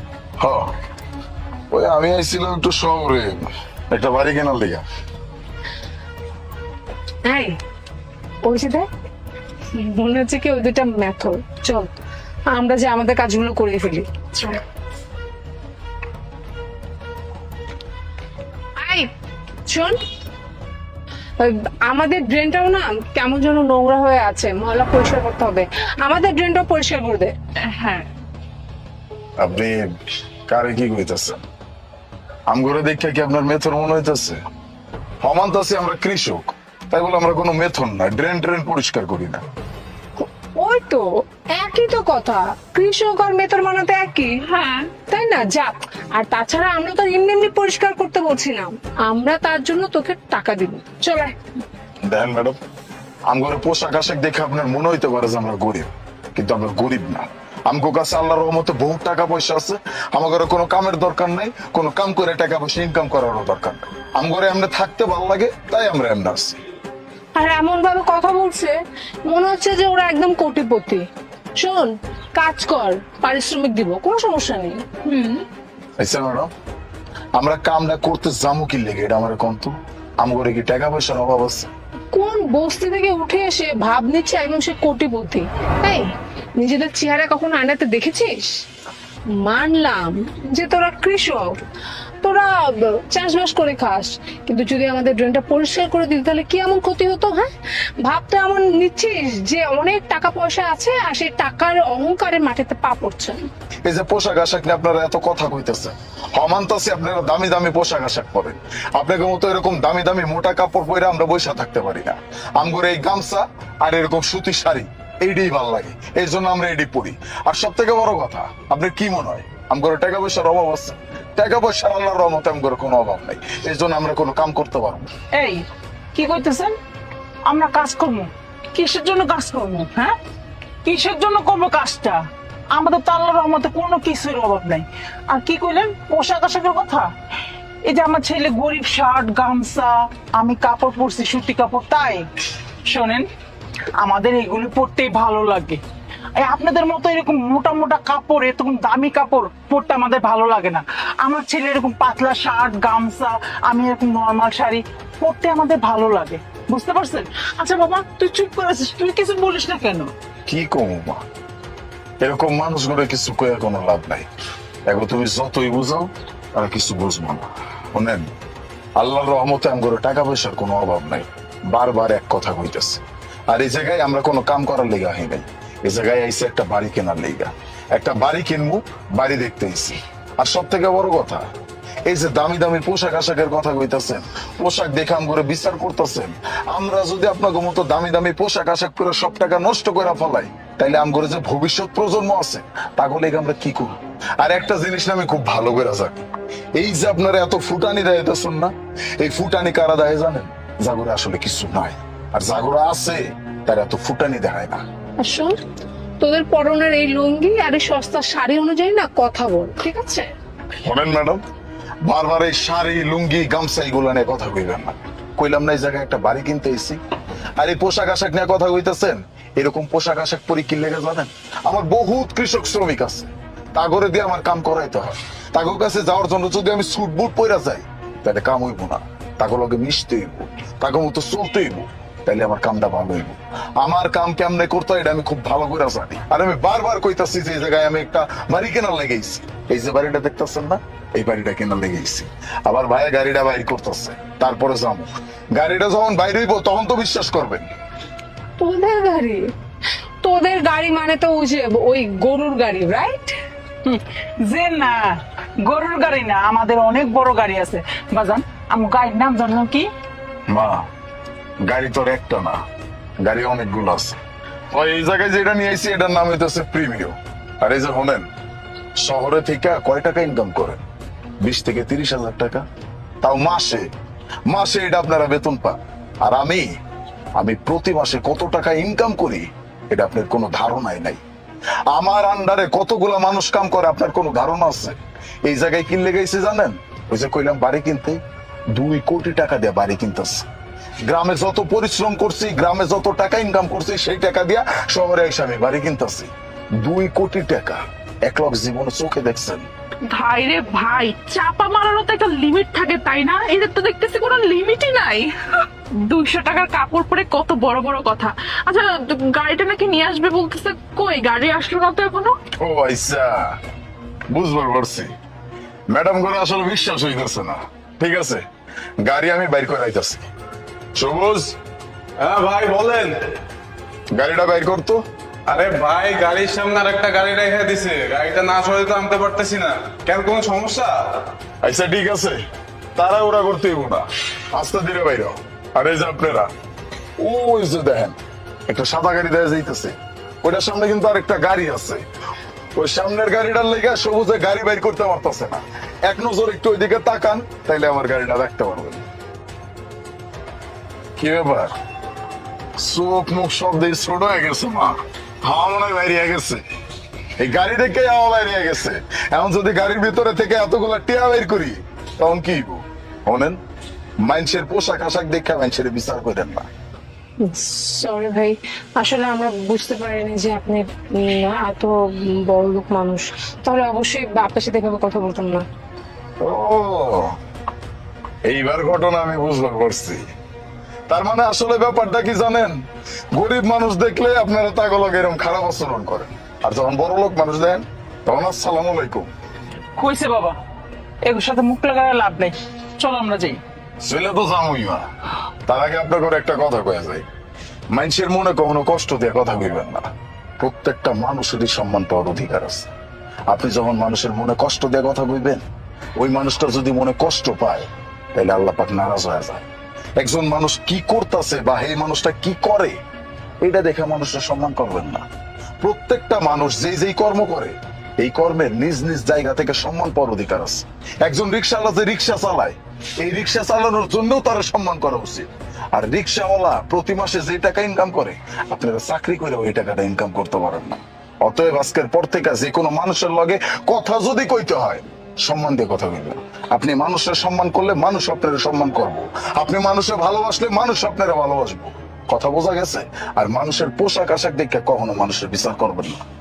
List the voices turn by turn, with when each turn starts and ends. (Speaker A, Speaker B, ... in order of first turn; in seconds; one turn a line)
Speaker A: 0.4-0.7
Speaker A: 1.7-4.8
Speaker B: 8.5-8.9
Speaker B: 9.8-12.0
Speaker B: 12.5-14.6
Speaker B: 19.7-20.0
Speaker B: 21.4-27.3
Speaker C: 27.8-28.1
Speaker A: 29.4-29.9
Speaker A: 30.5-31.4
Speaker A: 32.5-34.4
Speaker A: 35.2-39.4
Speaker B: 40.2-41.0
Speaker B: 41.6-44.4
Speaker C: 44.5-44.9
Speaker B: 45.0-51.3
Speaker A: 52.1-52.6
Speaker A: 53.3-66.6
Speaker B: 67.4-68.8
Speaker B: 69.3-71.0
Speaker B: 71.6-75.4
Speaker A: 76.0-76.5
Speaker A: 77.4-81.7
Speaker B: 82.1-86.0
Speaker B: 86.6-88.5
Speaker B: 89.4-91.6
Speaker B: 92.2-92.5
Speaker B: 93.1-97.5
Speaker B: 98.0-103.4
Speaker A: 103.9-125.1
Speaker D: 125.3-126.7
Speaker D: 127.5-130.2
Speaker D: 130.8-137.1
Speaker D: 137.8-142.3
Speaker D: 142.9-143.3
Speaker D: 144.0-145.8
Speaker D: 146.4-160.1
Speaker A: 160.5-161.2
Speaker A: 162.2-164.3
Speaker A: 164.9-168.3
Speaker A: 169.0-181.5
Speaker A: 182.1-204.8
Speaker B: 205.2-205.6
Speaker B: 206.2-210.3
Speaker A: 210.8-211.4
Speaker A: 212.1-217.0
Speaker A: 217.6-247.7
Speaker B: 248.6-249.4
Speaker B: 250.2-253.3
Speaker D: 253.8-259.9
Speaker A: 260.5-260.9
Speaker A: 261.6-262.6
Speaker A: 263.2-264.2
Speaker A: 264.7-268.3
Speaker A: 269.0-270.8
Speaker A: 271.4-272.7
Speaker A: 273.2-273.9
Speaker A: 274.5-276.7
Speaker A: 277.4-281.2
Speaker A: 281.9-288.2
Speaker A: 288.7-290.5
Speaker A: 291.1-299.7
Speaker C: 300.1-305.3
Speaker C: 306.0-312.3
Speaker A: 312.6-313.6
Speaker A: 314.3-315.1
Speaker A: 315.9-318.4
Speaker A: 319.0-320.3
Speaker A: 321.0-321.6
Speaker E: 322.2-323.3
Speaker A: 324.1-325.0
Speaker E: 325.5-331.2
Speaker A: 331.6-332.4
Speaker A: 333.0-336.5
Speaker A: 337.2-342.1
Speaker A: 342.8-349.0
Speaker A: 351.2-351.7
Speaker A: 352.8-356.6
Speaker A: 357.4-363.6
Speaker A: 364.2-366.7
Speaker B: 367.5-375.6
Speaker A: 376.4-377.3
Speaker A: 378.5-380.3
Speaker A: 381.1-382.8
Speaker A: 383.4-389.3
Speaker D: 390.0-390.6
Speaker D: 391.2-393.6
Speaker A: 394.0-395.1
Speaker A: 395.7-397.2
Speaker A: 397.9-400.1
Speaker A: 400.6-402.9
Speaker A: 403.5-405.6
Speaker A: 406.2-409.6
Speaker A: 410.2-413.0
Speaker A: 413.6-415.2
Speaker A: 415.8-446.2